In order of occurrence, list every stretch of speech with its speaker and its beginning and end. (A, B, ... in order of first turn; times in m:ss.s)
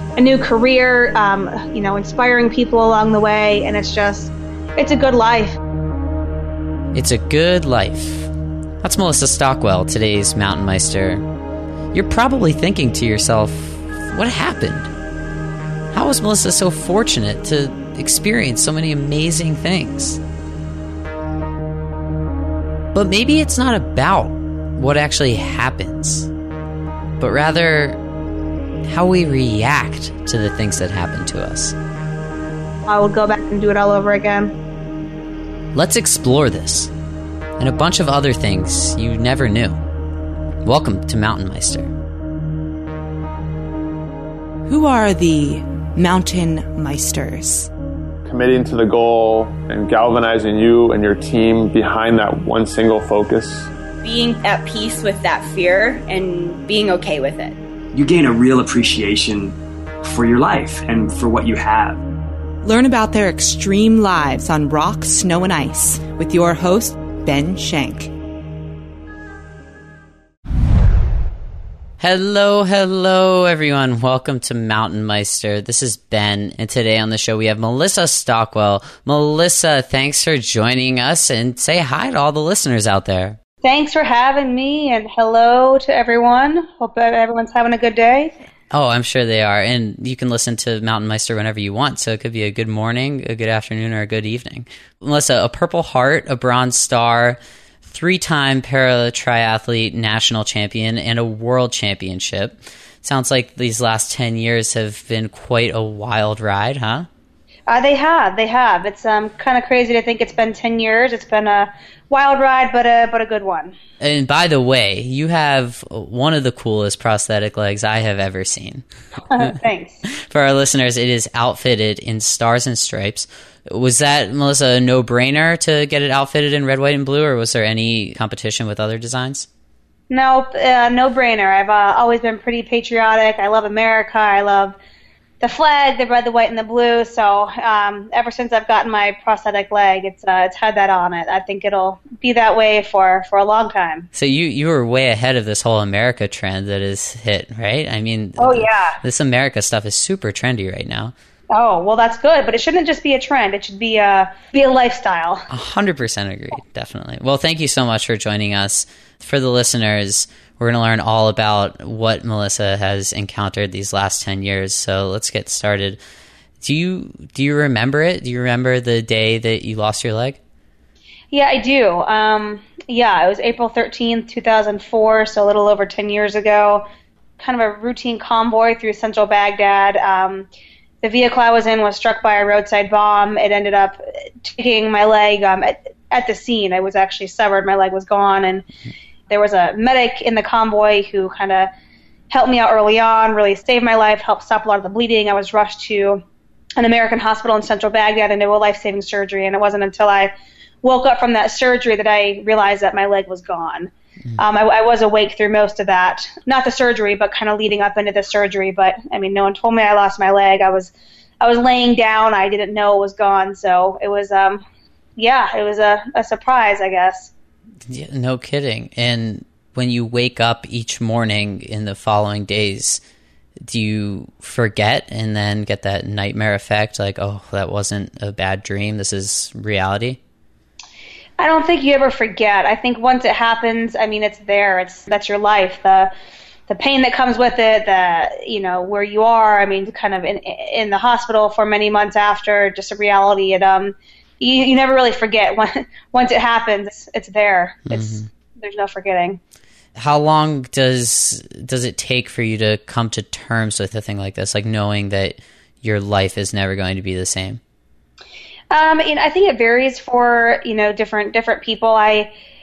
0:00.2-0:05.6 A
0:06.9-0:08.3 B
0:08.8-0:11.2 B
0:11.9-0:14.9 B
0:15.9-0:20.2 B
0:22.9-0:26.3 B
0:27.2-0:28.0 B
0:28.9-0:31.8 B
0:32.9-0:34.6 A
0:35.8-0:36.9 B
0:37.6-0:39.8 B
0:40.6-0:41.9 B
0:44.7-0:47.7 C
0:48.2-0:53.7 D
0:54.0-0:57.6 E
0:57.9-1:02.0 F
1:02.6-1:08.1 C
1:12.0-1:23.4 B
1:23.6-1:28.3 A
1:28.7-1:47.1 B
1:47.7-1:53.8 A
1:54.0-1:58.8 B
1:59.3-2:00.0 A
2:00.3-2:09.5 B
2:10.1-2:14.8 A
2:15.4-2:24.1 A
2:24.2-2:31.1 B
2:28.4-2:29.0 A
2:31.5-2:35.4 A
2:35.5-2:46.0 B
2:46.6-2:50.4 B
2:51.3-2:56.9 A
2:57.4-3:00.5 A
3:01.0-3:08.7 A
3:09.3-3:11.7 A
3:12.3-3:16.2 A
3:16.8-3:20.3 A
3:20.8-3:34.6 A
3:35.2-3:37.3 A
3:37.9-3:43.0 B
3:43.6-3:50.2 B
3:51.4-3:56.1 A
3:56.7-4:09.4 A
4:07.9-4:08.3 B
4:10.0-4:17.6 B
4:18.7-4:22.3 A